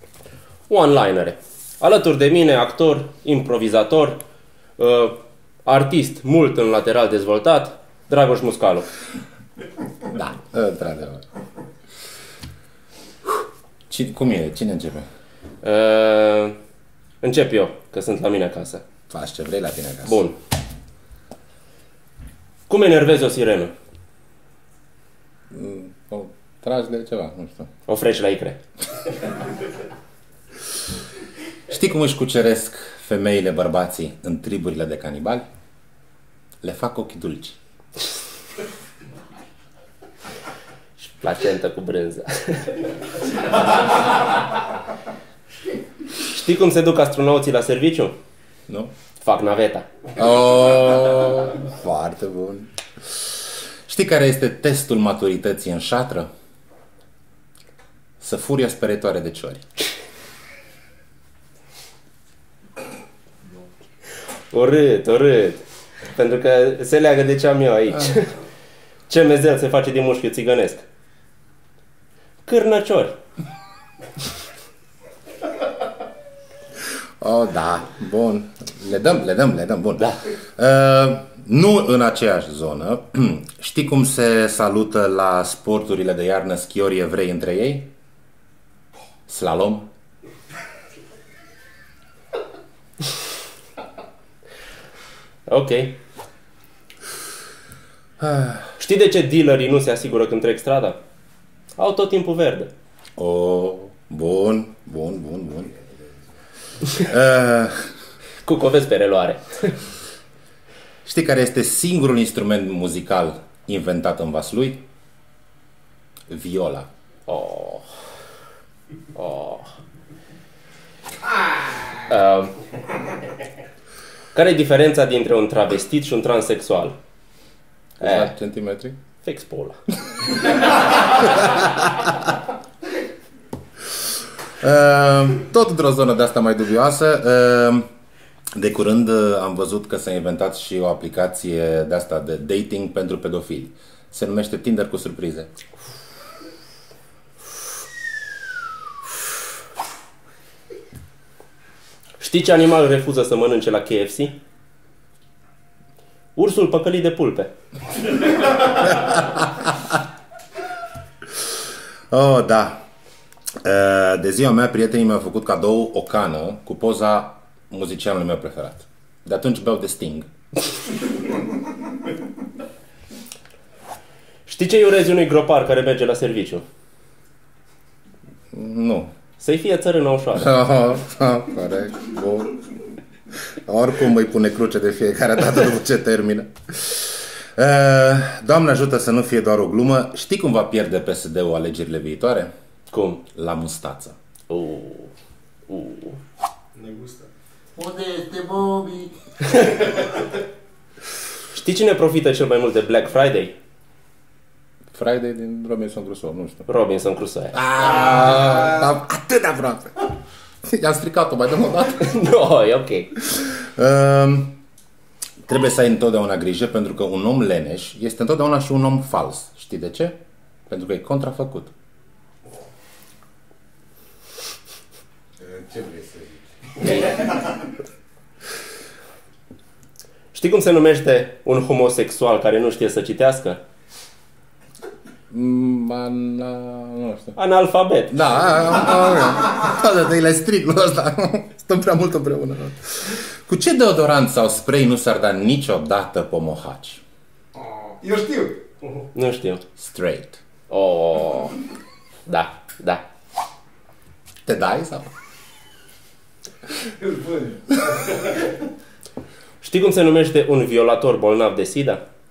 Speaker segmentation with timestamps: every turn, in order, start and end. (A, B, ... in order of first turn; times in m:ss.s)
0:00.7-0:04.2 A
0:04.8-0:08.9 A
0:10.0-0:11.2 B
0:13.9-0:15.1 B
0:15.6-0:16.6 A
0:17.2-0:18.8 A
0:19.1-0:20.2 B
0:20.0-0:20.4 A
0:22.7-0:23.7 A
0:25.5-0:27.7 B
0:27.9-0:28.6 A
0:31.7-0:35.5 B
0:36.6-0:37.6 B
0:41.0-0:43.7 A
0:46.2-0:48.2 A
0:48.7-0:48.9 B
0:49.2-0:49.8 A
0:50.2-0:52.7 B
0:53.8-0:56.3 B
0:58.2-0:59.6 B
1:04.5-1:08.4 A
1:09.1-1:10.8 A
1:12.5-1:13.2 A
1:17.2-1:27.9 B
1:29.3-1:29.9 B
1:35.5-1:36.0 A
1:38.2-1:38.6 B
1:38.8-1:41.0 A
1:41.8-1:42.7 A
1:43.2-1:45.8 B
1:46.9-1:47.9 B
1:48.4-1:49.8 A
1:51.0-1:54.8 B
1:56.3-1:56.9 B
1:57.3-1:57.9 A
1:59.2-1:59.7 A
2:01.9-2:02.6 A
2:04.3-2:06.9 A
2:08.0-2:09.0 B
2:08.0-2:08.3 A
2:09.2-2:09.8 A
2:10.1-2:12.1 B
2:14.6-2:17.9 B
2:18.6-2:25.5 B
2:32.2-2:34.4 A
2:36.4-2:37.5 A
2:38.7-2:39.8 B
2:42.1-2:42.8 B
2:43.6-2:50.3 B
2:54.5-2:56.6 A
2:58.5-2:59.1 B
2:59.4-3:00.5 A
3:00.3-3:02.7 B
3:03.5-3:12.5 B
3:12.9-3:13.2 A
3:13.3-3:14.2 B
3:14.5-3:15.1 A
3:15.7-3:16.2 A
3:16.8-3:17.2 C
3:17.8-3:19.2 C
3:19.4-3:20.1 A
3:21.5-3:23.5 A
3:24.9-3:26.7 B
3:26.7-3:27.6 A
3:27.5-3:30.1 B
3:30.6-3:32.1 B
3:31.9-3:33.2 A
3:33.2-3:34.6 B
3:35.4-3:40.1 B
3:40.7-3:41.7 B
3:45.6-3:46.1 B
3:45.6-3:46.2 C
3:46.8-3:47.3 A
3:50.3-3:53.6 A
3:55.3-3:57.4 B
3:57.4-3:58.2 A
3:58.1-4:07.0 B
4:08.0-4:08.6 C
4:09.1-4:09.6 A
4:09.8-4:10.4 B
4:10.7-4:11.6 A
4:12.2-4:13.0 A
4:14.4-4:15.1 B
4:17.0-4:18.1 C
4:19.6-4:22.0 A